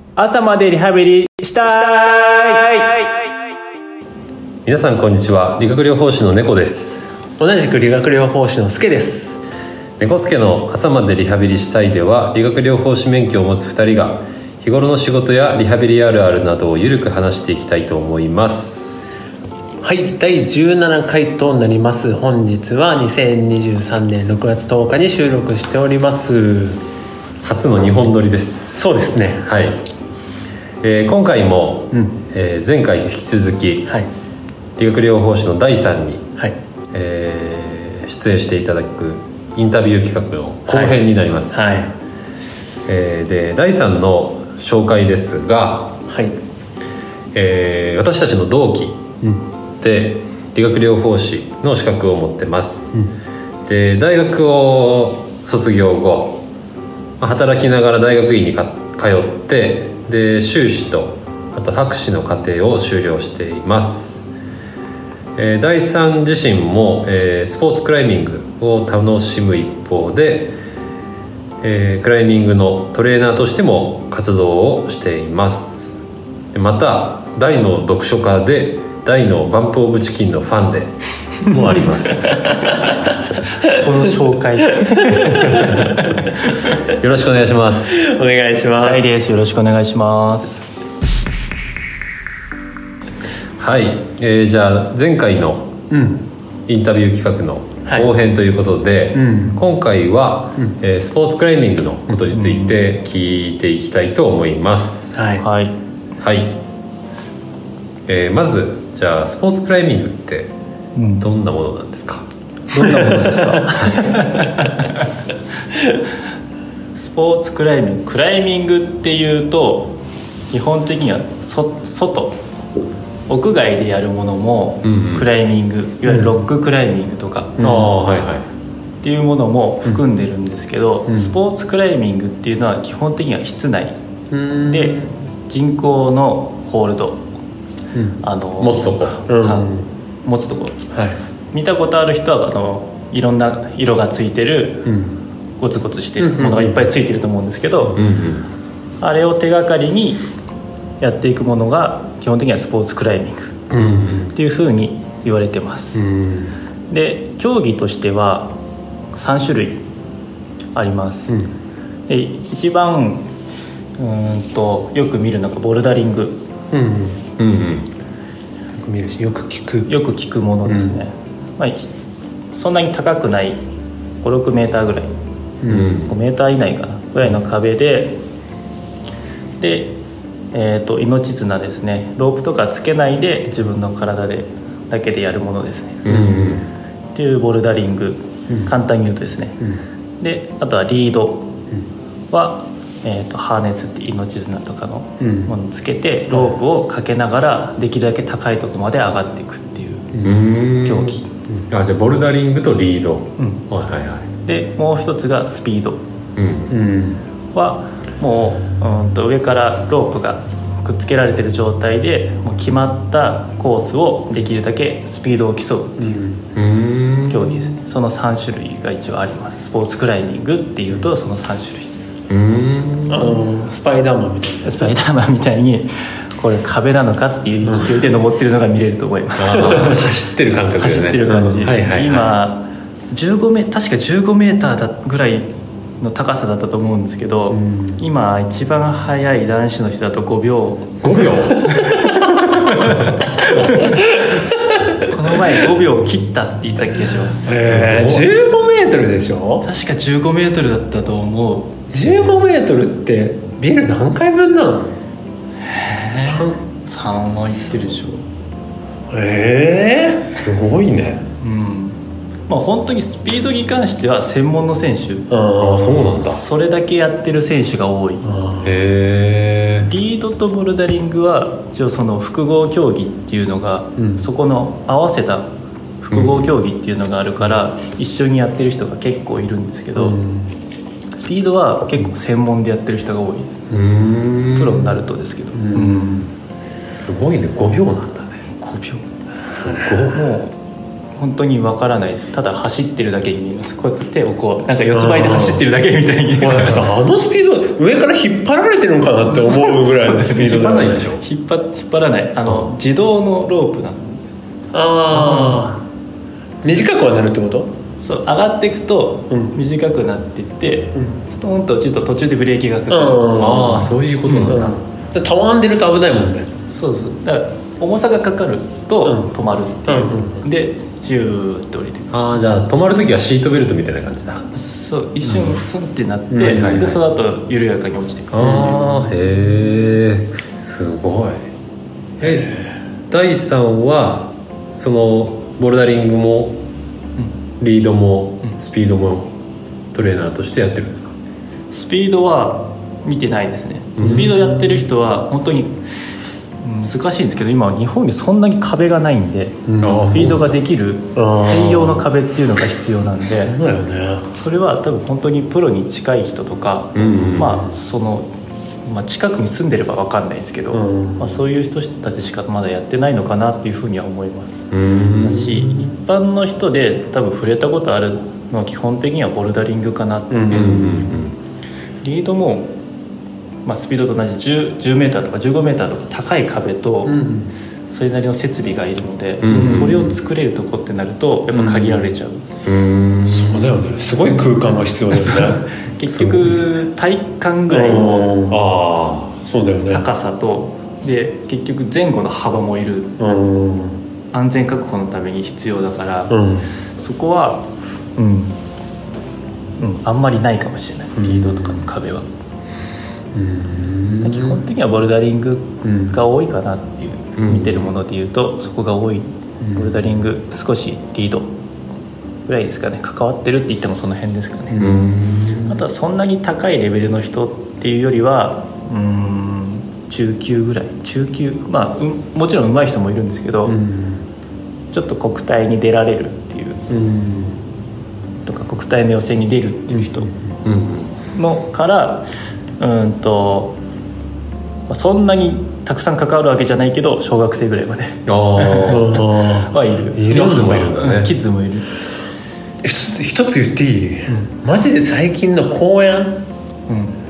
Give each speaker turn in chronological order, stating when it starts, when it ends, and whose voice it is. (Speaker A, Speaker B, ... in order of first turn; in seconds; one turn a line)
Speaker A: 0.2-3.1
Speaker B: 4.7-7.1
Speaker C: 7.4-9.4
Speaker B: 10.0-19.4
Speaker C: 19.8-26.8
Speaker B: 27.4-29.8
Speaker C: 28.7-29.5
Speaker B: 30.8-34.0
Speaker C: 31.9-32.2
Speaker B: 34.8-36.3
Speaker B: 36.9-41.6
Speaker C: 40.7-41.9
Speaker B: 42.9-46.0
Speaker C: 46.1-46.4
Speaker B: 47.3-49.0
Speaker B: 49.8-53.0
Speaker B: 53.7-56.4
Speaker B: 57.2-64.2
Speaker B: 65.4-70.6
Speaker B: 71.6-76.0
Speaker B: 76.5-82.5
Speaker C: 82.3-83.0
Speaker A: 83.6-86.5
Speaker C: 84.8-85.5
Speaker B: 85.5-85.9
Speaker B: 86.9-88.1
Speaker C: 87.9-89.0
Speaker A: 88.8-90.7
Speaker B: 93.6-95.7
Speaker C: 95.9-96.2
Speaker B: 96.7-105.2
Speaker C: 99.2-99.6
Speaker A: 102.3-102.7
Speaker C: 105.2-105.5
Speaker A: 105.4-105.8
Speaker B: 106.2-106.6
Speaker B: 108.1-110.5
Speaker A: 111.0-111.2
Speaker B: 111.2-112.3
Speaker A: 112.7-114.8
Speaker A: 117.0-120.0
Speaker A: 120.5-122.4
Speaker A: 123.3-127.6
Speaker B: 124.8-125.3
Speaker C: 126.1-126.4
Speaker C: 127.6-127.9
Speaker B: 127.6-128.5
Speaker A: 129.0-133.9
Speaker C: 131.1-131.3
Speaker C: 134.3-135.1
Speaker A: 134.7-137.2
Speaker A: 138.2-140.8
Speaker B: 138.6-139.2
Speaker C: 139.3-139.9
Speaker A: 141.5-144.9
Speaker C: 144.9-145.2
Speaker A: 145.6-148.0
Speaker C: 146.2-146.8
Speaker B: 147.9-148.5
Speaker A: 149.0-150.2
Speaker A: 151.0-153.6
Speaker C: 153.7-154.3
Speaker A: 154.3-156.0
Speaker C: 155.9-156.5
Speaker A: 156.9-158.6
Speaker A: 159.1-159.8
Speaker A: 160.8-161.4
Speaker A: 162.1-163.3
Speaker A: 164.0-166.4
Speaker C: 166.7-167.2
Speaker B: 167.4-167.9
Speaker C: 168.8-169.9
Speaker A: 169.9-171.9
Speaker C: 170.7-170.9
Speaker A: 172.6-173.6
Speaker A: 174.2-175.1
Speaker C: 175.6-176.0
Speaker B: 175.7-176.1
Speaker A: 176.0-178.2
Speaker A: 179.6-180.0
Speaker A: 180.5-186.0
Speaker B: 186.1-186.7
Speaker C: 186.1-186.6
Speaker A: 187.2-189.6
Speaker A: 190.2-191.5
Speaker A: 192.3-200.1
Speaker C: 195.2-195.5
Speaker B: 200.2-204.3
Speaker A: 200.8-201.3
Speaker A: 204.4-206.0
Speaker B: 206.4-206.7
Speaker C: 206.7-207.2
Speaker A: 207.5-216.2
Speaker C: 216.0-216.4
Speaker B: 216.6-217.7
Speaker A: 217.3-221.9
Speaker B: 222.3-223.4
Speaker C: 223.1-224.9
Speaker A: 224.6-230.0
Speaker C: 227.7-228.0
Speaker B: 229.4-232.3
Speaker C: 229.6-230.0
Speaker A: 230.8-235.5
Speaker C: 231.3-231.7
Speaker A: 236.0-241.0
Speaker C: 237.5-238.0
Speaker B: 241.0-241.7
Speaker A: 241.7-244.0
Speaker B: 242.8-243.1
Speaker C: 243.7-244.9
Speaker A: 245.0-247.9
Speaker C: 247.4-249.7
Speaker B: 247.6-248.3
Speaker A: 249.6-251.8
Speaker C: 251.9-255.0
Speaker A: 255.7-258.2
Speaker C: 259.1-260.2
Speaker B: 260.2-261.3
Speaker A: 261.4-262.0
Speaker A: 262.5-265.3
Speaker C: 265.3-266.2
Speaker B: 265.6-266.4
Speaker A: 266.2-268.4
Speaker C: 268.2-268.8
Speaker B: 268.6-269.9
Speaker A: 269.9-275.5
Speaker C: 274.0-274.2
Speaker A: 276.0-280.2
Speaker B: 276.1-276.4
Speaker C: 280.0-280.5
Speaker A: 281.2-283.6
Speaker B: 283.7-284.9
Speaker A: 284.5-286.3
Speaker C: 285.6-286.3
Speaker B: 286.9-288.4
Speaker A: 288.6-289.0
Speaker B: 289.3-290.2
Speaker A: 290.1-290.6
Speaker A: 291.2-296.9
Speaker C: 294.9-295.6
Speaker C: 296.4-301.0
Speaker B: 300.2-301.2
Speaker A: 301.2-304.2
Speaker C: 304.7-305.8
Speaker A: 305.2-305.7
Speaker C: 306.6-307.7
Speaker A: 308.0-313.8
Speaker C: 312.9-316.5
Speaker B: 313.4-314.8
Speaker A: 316.7-322.1
Speaker C: 319.1-319.3
Speaker C: 319.9-320.4
Speaker B: 322.1-324.5
Speaker A: 324.5-329.1
Speaker C: 326.3-326.8
Speaker B: 326.4-327.0
Speaker B: 328.3-331.4
Speaker C: 328.4-328.8
Speaker B: 332.2-332.5
Speaker C: 332.2-332.6
Speaker B: 333.1-336.6
Speaker B: 337.6-339.3
Speaker B: 339.9-341.1
Speaker A: 341.7-345.8
Speaker B: 344.0-344.2
Speaker C: 344.0-344.9
Speaker A: 346.6-353.6
Speaker C: 349.7-350.4
Speaker B: 349.8-350.4
Speaker C: 351.1-352.1
Speaker C: 353.2-354.3
Speaker A: 354.3-358.3
Speaker B: 356.9-357.6
Speaker C: 357.4-357.6
Speaker A: 358.9-371.0
Speaker C: 360.7-361.4
Speaker B: 364.7-365.7
Speaker C: 370.3-371.0
Speaker B: 370.5-371.3
Speaker A: 372.0-372.7
Speaker A: 373.6-377.2
Speaker C: 377.1-377.5
Speaker A: 377.9-382.4
Speaker B: 379.4-380.0
Speaker C: 379.5-380.1
Speaker C: 381.5-382.0
Speaker B: 382.6-383.8
Speaker C: 383.3-385.6
Speaker A: 385.1-388.3
Speaker B: 386.1-386.6
Speaker C: 387.7-388.6
Speaker B: 388.5-389.4
Speaker C: 389.5-390.1
Speaker A: 389.9-393.1
Speaker C: 393.2-394.0
Speaker A: 394.3-396.4
Speaker C: 396.3-396.7
Speaker A: 397.0-398.6
Speaker A: 399.8-402.3
Speaker C: 401.2-401.9
Speaker C: 403.4-404.6
Speaker A: 404.2-411.5
Speaker C: 405.8-406.2
Speaker B: 407.4-407.9
Speaker C: 409.6-409.9
Speaker A: 412.5-414.9
Speaker C: 414.7-415.1
Speaker B: 414.8-415.8
Speaker A: 415.7-423.8
Speaker C: 423.7-424.2
Speaker A: 424.9-426.8
Speaker C: 426.9-427.6
Speaker A: 428.5-430.3
Speaker C: 429.9-430.4
Speaker B: 430.6-431.1
Speaker A: 431.3-432.3
Speaker A: 432.8-433.8
Speaker A: 434.9-441.9
Speaker B: 438.3-439.3
Speaker C: 438.9-440.8
Speaker B: 440.2-441.3
Speaker C: 442.8-446.4
Speaker A: 446.9-447.2